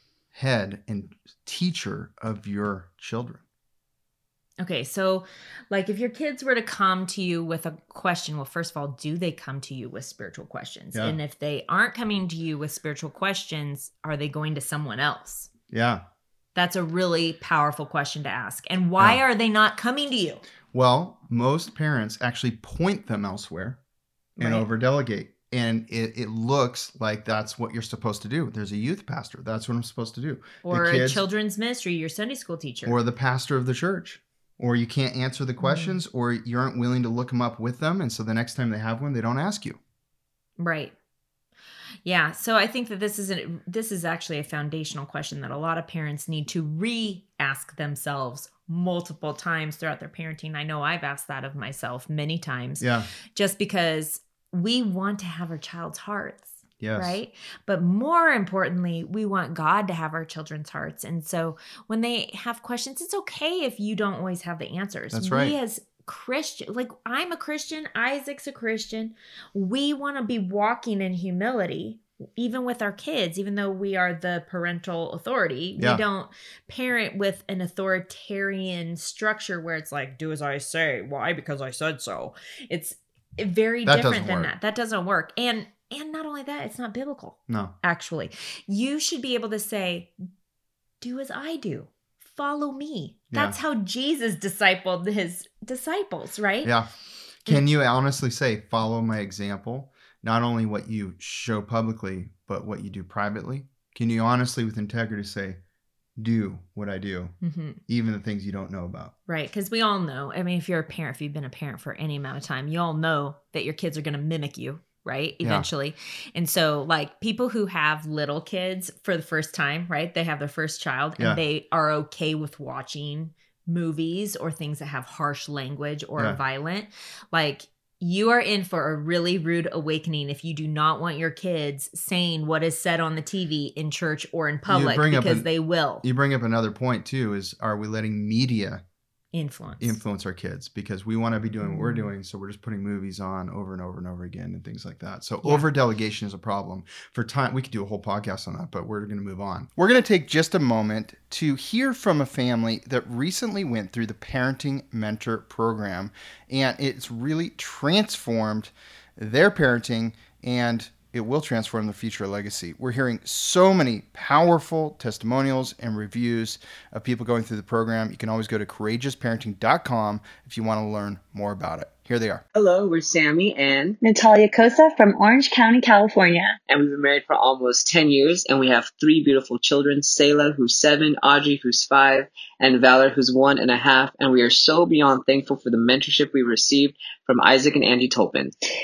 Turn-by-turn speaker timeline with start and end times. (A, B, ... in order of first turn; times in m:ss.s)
0:00.3-0:03.4 A
0:04.6-0:15.5 B
0:15.7-0:16.0 A
0:16.6-0:20.4 B
0:20.7-0:23.8 A
0:24.4-0:31.2 A
0:24.4-0:24.7 B
0:30.6-0:33.0 B
0:32.8-0:39.8 A
0:35.6-0:36.0 B
0:40.6-0:40.9 B
0:42.0-1:30.1 B
0:52.8-0:53.1 A
0:56.8-0:57.2 A
1:05.1-1:05.6 A
1:23.9-1:24.5 A
1:31.0-1:36.8 B
1:36.6-1:36.9 A
1:37.4-1:45.6 A
1:46.2-1:47.3 A
1:47.4-1:47.8 B
1:47.9-1:49.1 A
1:49.3-2:16.0 B
2:14.7-2:15.5 A
2:16.0-2:18.8 A
2:19.3-2:20.0 B
2:19.8-2:52.4 A
2:21.6-2:22.1 B
2:52.5-2:54.0 C
2:54.0-2:56.6 D
2:56.7-3:08.5 C